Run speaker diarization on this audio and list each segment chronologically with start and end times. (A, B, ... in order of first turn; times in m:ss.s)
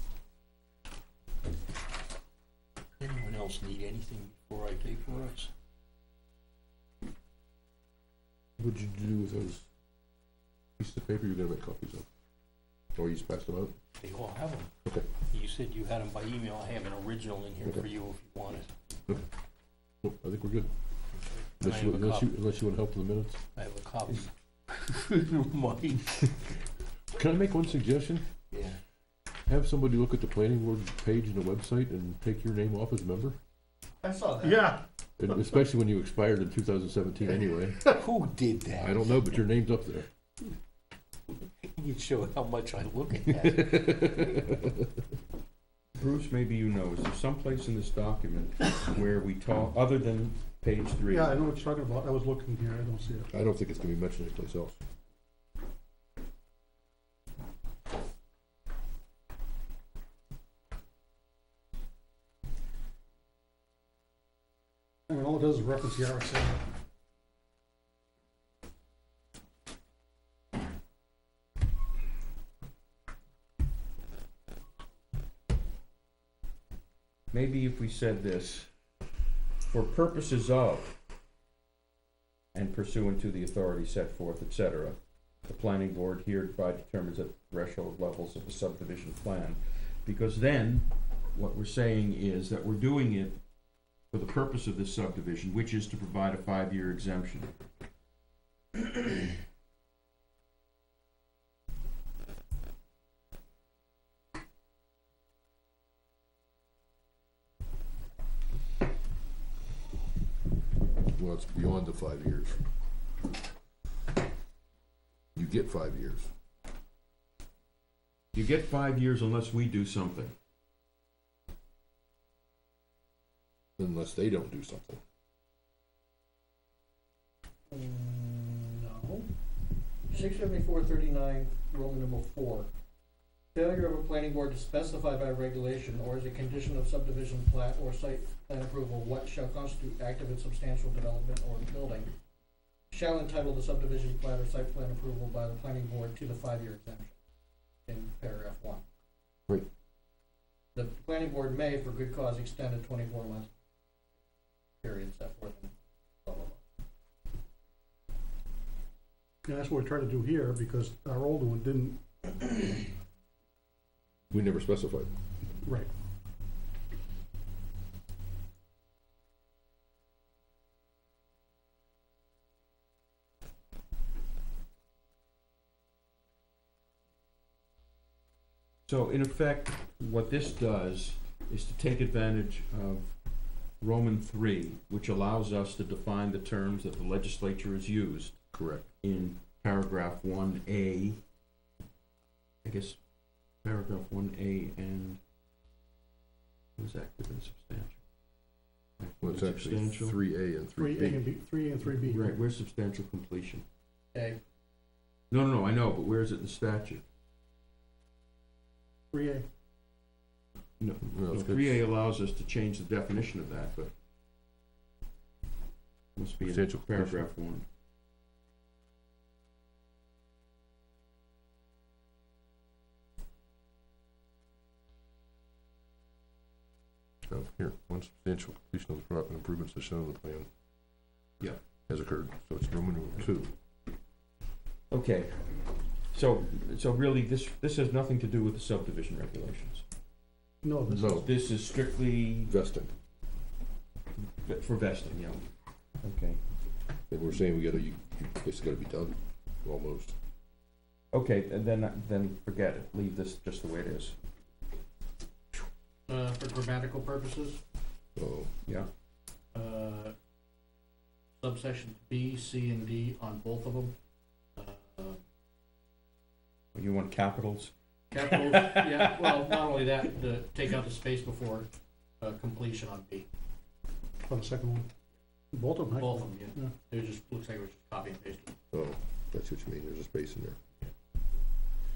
0:03.0-0:05.5 A
0:08.6-0:09.6 B
0:10.8-0:12.1 B
0:13.0-0:13.7 B
0:14.0-0:14.7 A
0:15.3-0:18.7 A
0:20.0-0:20.7 B
0:21.6-0:22.3 A
0:21.6-0:23.4 B
0:23.6-0:26.4 A
0:27.1-0:28.3 B
0:28.5-0:28.8 A
0:29.5-0:33.4 B
0:34.0-0:34.8 C
0:34.4-0:34.8 D
0:35.2-0:38.0 B
0:38.0-0:39.2 A
0:38.8-0:40.1 B
0:41.6-0:44.4 A
0:43.3-0:44.7 B
0:46.0-0:51.4 E
0:51.0-0:53.3 D
0:53.3-0:54.8 B
1:05.1-1:06.6 D
1:17.3-1:18.7 E
1:19.7-1:21.0 E
1:22.5-1:33.4 E
1:34.1-1:37.5 E
1:51.0-1:52.6 B
1:55.4-1:56.3 B
1:58.4-2:00.3 E
2:03.8-2:05.0 B
2:07.7-2:09.3 C
2:10.1-2:12.7 C
2:13.6-2:22.1 C
2:22.9-2:27.2 C
2:27.9-2:28.8 C
2:30.8-2:33.5 C
2:34.8-2:35.7 C
2:36.2-2:36.6 C
2:39.4-2:42.8 D
2:44.3-2:45.1 B
2:45.6-2:45.9 D
2:58.9-3:03.2 E
3:03.8-3:08.4 E
3:08.5-3:08.9 B
3:09.0-3:11.2 E
3:12.6-3:13.0 E
3:13.6-3:15.2 E
3:16.8-3:18.0 E
3:19.0-3:20.2 E
3:19.2-3:21.4 B
3:20.8-3:22.3 D
3:21.8-3:23.6 E
3:24.1-3:24.4 C
3:25.3-3:27.0 E
3:29.1-3:29.5 D
3:30.8-3:33.9 E
3:31.0-3:31.8 B
3:36.2-3:37.6 E
3:36.4-3:37.3 B
3:47.3-3:50.5 B
3:51.9-3:53.5 B
3:54.9-3:55.6 E
3:56.1-3:59.8 E
4:00.6-4:01.2 D
4:00.9-4:01.3 B
4:01.0-4:02.5 E
4:02.5-4:02.9 B
4:04.2-4:05.4 E
4:06.0-4:06.4 E
4:07.1-4:10.1 B
4:11.1-4:14.2 E
4:16.1-4:17.6 C
4:18.2-4:18.5 B
4:19.5-4:20.1 C
4:21.4-4:23.9 C
4:24.6-4:25.2 C
4:26.8-4:27.7 E
4:28.1-4:31.7 C
4:32.2-4:33.3 C
4:34.3-4:34.9 D
4:35.5-4:36.7 D
4:36.0-4:38.5 C
4:38.7-4:40.6 B